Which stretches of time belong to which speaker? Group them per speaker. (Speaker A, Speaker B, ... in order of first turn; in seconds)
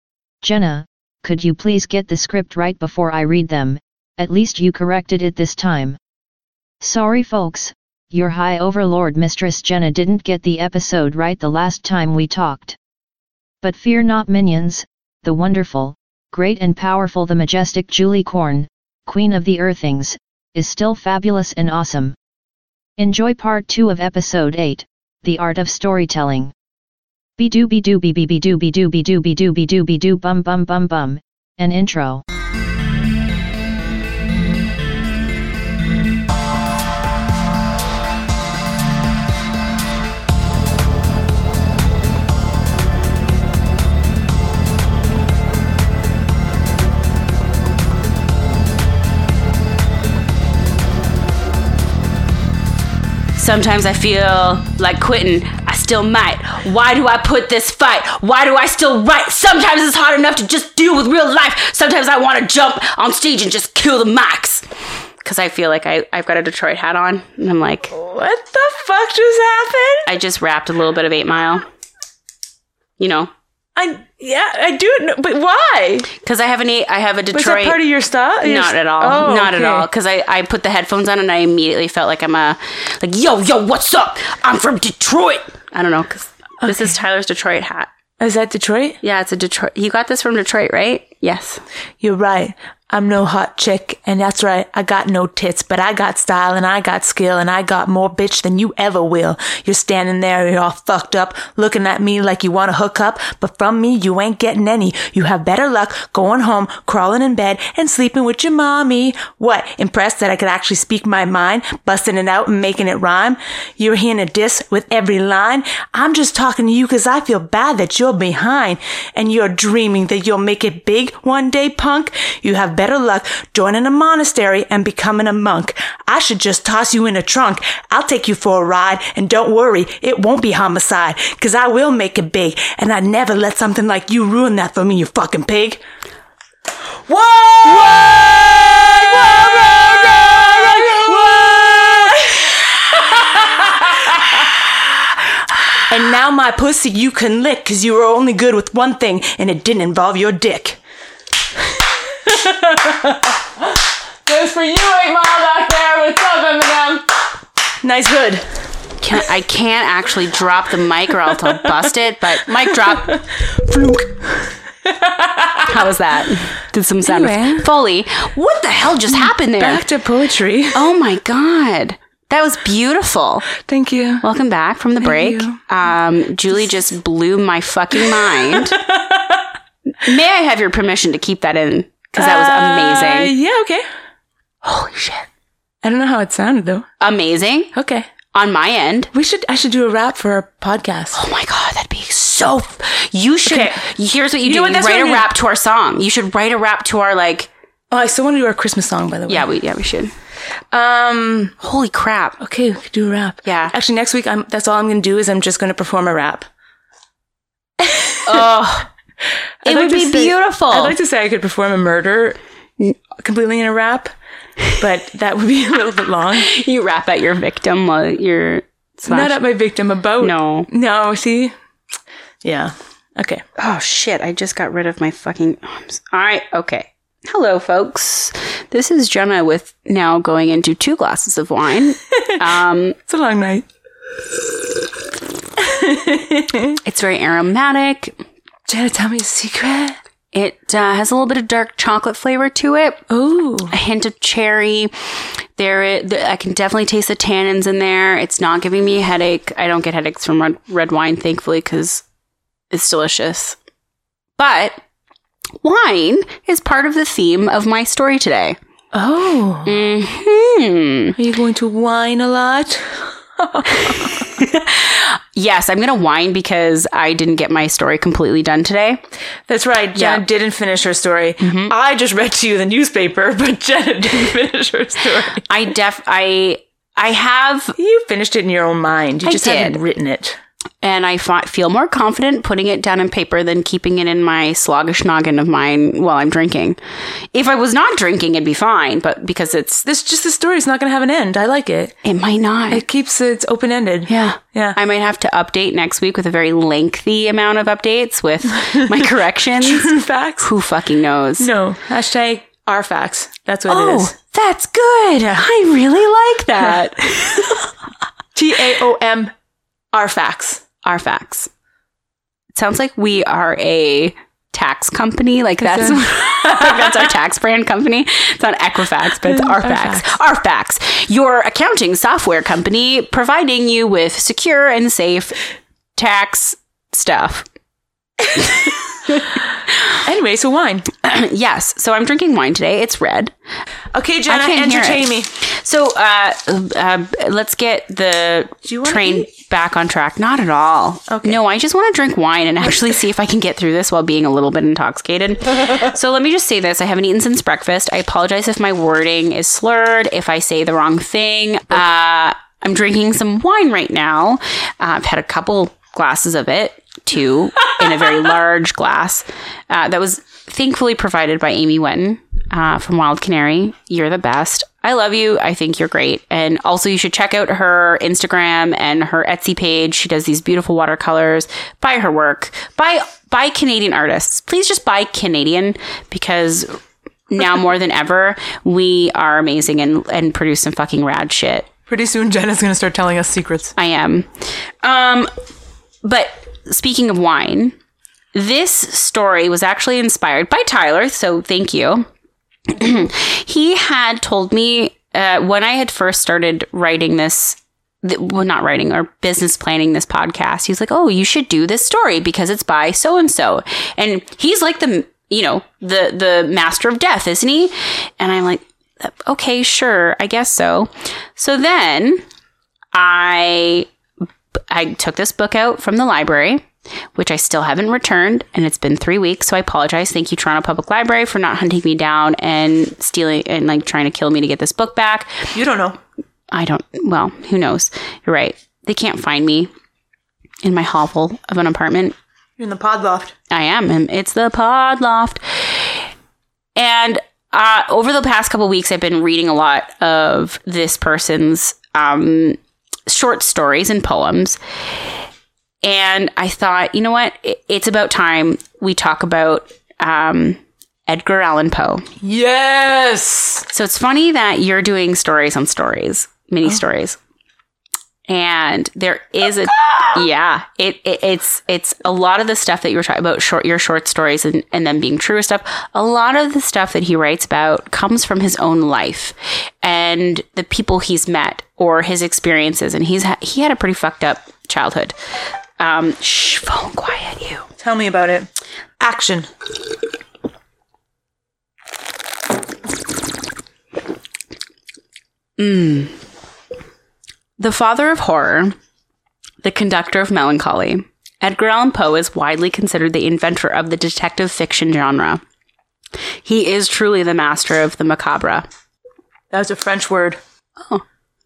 Speaker A: 0.4-6.0, 6.8-12.8, 13.6-22.1, 23.0-26.5, 27.4-32.2
Speaker B: 53.3-64.7, 65.2-67.9, 70.0-71.7, 73.0-73.3, 76.2-77.8, 78.4-87.9, 89.0-91.6, 159.0-163.2, 165.7-169.8, 170.7-173.5, 174.2-178.8, 180.0-183.3, 184.6-185.3, 187.0-187.7, 188.3-189.1, 191.1-197.5, 199.3-200.1, 201.6-202.4, 203.4-203.7, 208.2-208.9, 209.6-210.9, 216.4-219.3, 220.2-220.7, 223.6-232.9, 236.8-238.2, 240.3-243.0, 243.7-252.0, 252.7-253.6, 254.3-254.8, 255.6-258.6, 259.6-261.1, 263.7-269.0, 269.9-270.2, 271.4-271.7, 275.5-277.8, 279.2-279.8, 280.8-286.8, 287.3-289.8, 292.0-292.8, 294.1-301.5, 303.7-307.7, 310.8-311.5, 312.5-325.4, 325.9-327.4, 328.4-329.9, 331.0-333.3, 334.3-381.7, 383.8-385.3, 386.0-387.7, 388.3-392.1, 392.7-412.2, 412.9-413.9, 414.6-425.4, 426.5-429.7, 430.6-432.1, 433.5-436.0, 436.8-444.6, 445.8-452.1, 453.7-457.2, 458.3-475.1, 475.8-477.6, 485.6-486.2, 487.6-488.8, 489.6-495.4, 496.4-498.6
Speaker C: 67.9-70.1, 73.8-76.1, 77.3-79.9, 88.2-89.0, 92.0-135.8, 137.1-144.7, 145.9-150.8, 152.2-157.0, 157.8-158.6, 161.3-161.8, 162.7-165.8, 167.0-167.7, 169.1-170.9, 173.6-174.2, 175.0-175.6, 178.1-179.4, 182.2-183.8, 185.8-186.9, 187.7-188.1, 189.1-191.2, 193.5-193.8, 194.4-195.3, 197.9-199.4, 200.7-201.5, 202.4-206.5, 207.8-208.5, 209.6-214.1, 214.7-216.5, 219.1-221.5, 222.4-223.4, 232.1-232.4, 233.1-233.7, 234.3-234.8, 235.6-236.8, 238.7-240.0, 243.1-243.8, 258.9-259.8, 261.2-264.3, 269.5-275.5, 277.8-280.4, 289.9-292.0, 292.7-294.8, 298.7-299.0, 299.6-300.5, 301.4-304.1, 308.3-309.3, 309.9-310.6, 315.7-317.1, 319.2-320.2, 329.9-330.9, 333.9-335.3, 338.6-339.3, 341.1-341.4, 381.9-383.7, 425.5-426.0, 432.6-433.4, 452.2-453.6, 459.8-460.2, 477.8-478.5, 479.0-479.5, 499.5-500.4